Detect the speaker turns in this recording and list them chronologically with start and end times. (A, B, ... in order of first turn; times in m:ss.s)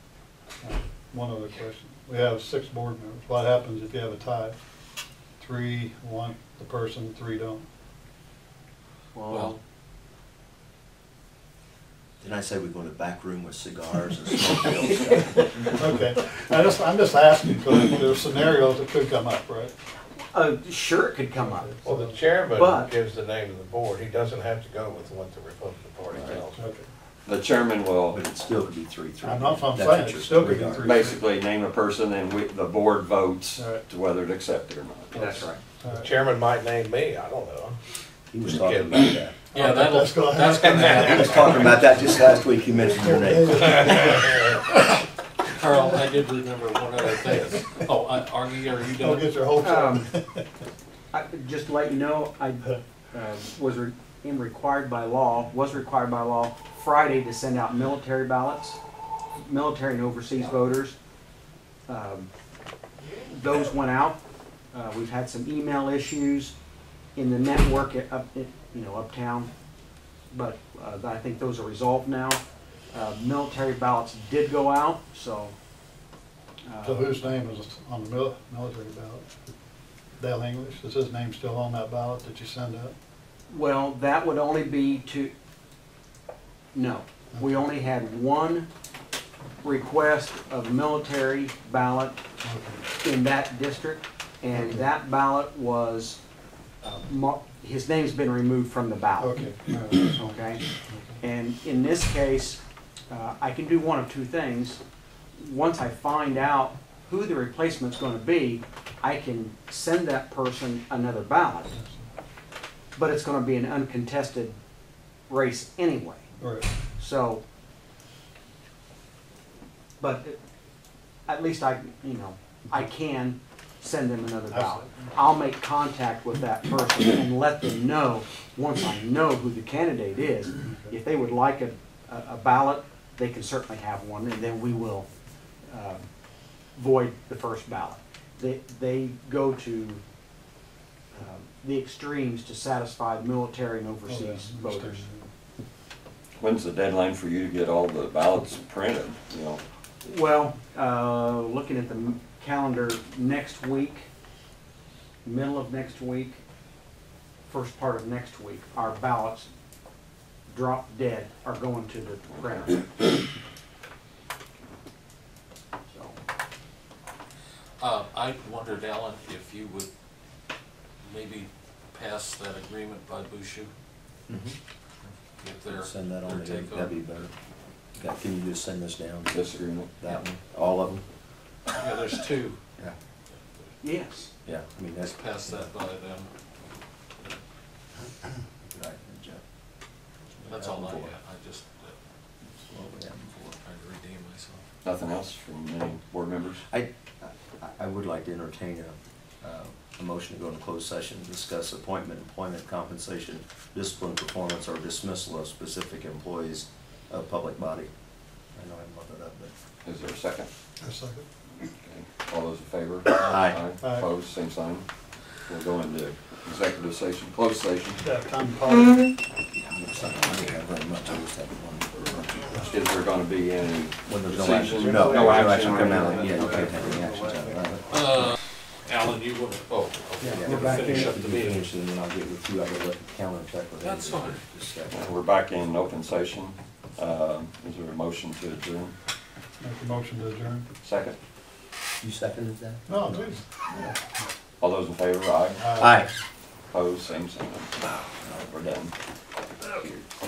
0:00.6-0:04.6 A
0:05.4-0:07.7 A
0:09.1-0:09.6 B
0:09.3-0:09.6 C
0:12.2-0:15.5 D
0:15.7-0:19.7 A
0:20.3-0:21.7 B
0:21.4-0:22.2 A
0:21.8-0:26.7 E
0:22.5-0:22.9 B
0:26.1-0:26.4 F
0:26.6-0:26.9 A
0:27.3-0:28.2 F
0:28.1-0:30.9 D
0:29.2-0:31.2 A
0:30.8-0:35.4 F
0:33.6-0:33.8 A
0:35.2-0:35.6 B
0:35.2-0:36.1 A
0:35.9-0:37.8 E
0:38.3-0:39.4 D
0:38.5-0:39.1 E
0:39.5-0:41.4 A
0:39.5-0:42.0 C
0:40.5-0:41.7 E
0:41.2-0:44.1 D
0:42.9-0:44.3 A
0:43.5-0:44.6 E
0:45.5-0:49.3 C
0:47.7-0:48.1 A
0:48.9-0:50.5 A
0:49.6-0:50.1 B
0:51.1-0:58.8 B
0:59.4-1:01.0 B
1:01.9-1:02.3 B
1:03.3-1:04.2 B
1:04.7-1:06.5 B
1:07.2-1:09.5 B
1:10.3-1:12.4 B
1:12.9-1:15.6 B
1:16.7-1:17.3 B
1:16.8-1:19.3 A
1:20.2-1:23.0 A
1:23.5-1:25.3 B
1:26.7-1:28.7 B
1:27.3-1:27.7 A
1:29.6-1:32.2 B
1:32.4-1:32.8 A
1:33.0-1:36.2 B
1:36.8-1:40.7 B
1:39.2-1:40.1 A
1:40.7-1:41.2 A
1:41.2-1:44.8 B
1:45.4-1:51.8 B
1:51.7-1:52.1 A
1:53.0-1:54.6 B
1:55.3-1:56.3 B
1:56.4-1:56.7 A
1:57.0-1:57.4 B
2:00.0-2:00.4 B
2:01.3-2:15.1 B
2:04.5-2:05.3 A
2:10.6-2:11.0 A
2:15.7-2:16.0 B
2:16.8-2:20.0 B
2:21.1-2:25.1 B
2:24.1-2:25.3 A
2:26.4-2:29.6 F
2:30.0-2:34.1 B
2:35.2-2:36.4 B
2:37.5-2:39.5 B
2:40.5-2:42.8 B
2:42.3-2:42.8 F
2:45.9-2:46.2 B
2:47.8-2:49.9 C
2:51.0-2:53.7 C
2:54.3-2:54.6 D
2:55.0-2:56.9 C
2:55.6-2:57.3 D
2:58.0-3:01.0 D
2:59.3-3:00.0 F
3:01.7-3:02.6 C
3:03.3-3:03.7 C
3:03.8-3:04.3 B
3:04.5-3:05.7 D
3:05.2-3:06.3 C
3:08.5-3:09.4 D
3:10.4-3:11.2 D
3:10.4-3:12.0 C
3:12.6-3:13.6 D
3:13.5-3:14.6 C
3:14.8-3:16.7 F
3:16.7-3:27.9 D
3:28.6-3:29.5 D
3:29.8-3:30.5 F
3:30.8-3:31.3 A
3:31.8-3:34.9 F
3:33.2-3:33.6 D
3:33.8-3:34.1 A
3:35.5-3:38.0 F
3:38.0-3:39.1 A
3:39.5-3:42.0 D
3:42.1-3:46.4 F
3:44.1-3:48.3 D
3:44.9-3:46.8 C
3:47.9-3:51.6 C
3:49.7-3:51.3 E
3:50.2-3:55.1 D
3:53.8-3:54.4 C
3:54.9-3:59.0 F
3:59.6-4:00.7 A
4:00.8-4:01.2 F
4:02.0-4:03.8 D
4:02.9-4:04.3 A
4:04.6-4:05.7 F
4:05.6-4:06.0 A
4:05.8-4:06.1 D
4:06.7-4:08.9 F
4:07.9-4:08.2 D
4:09.8-4:10.1 F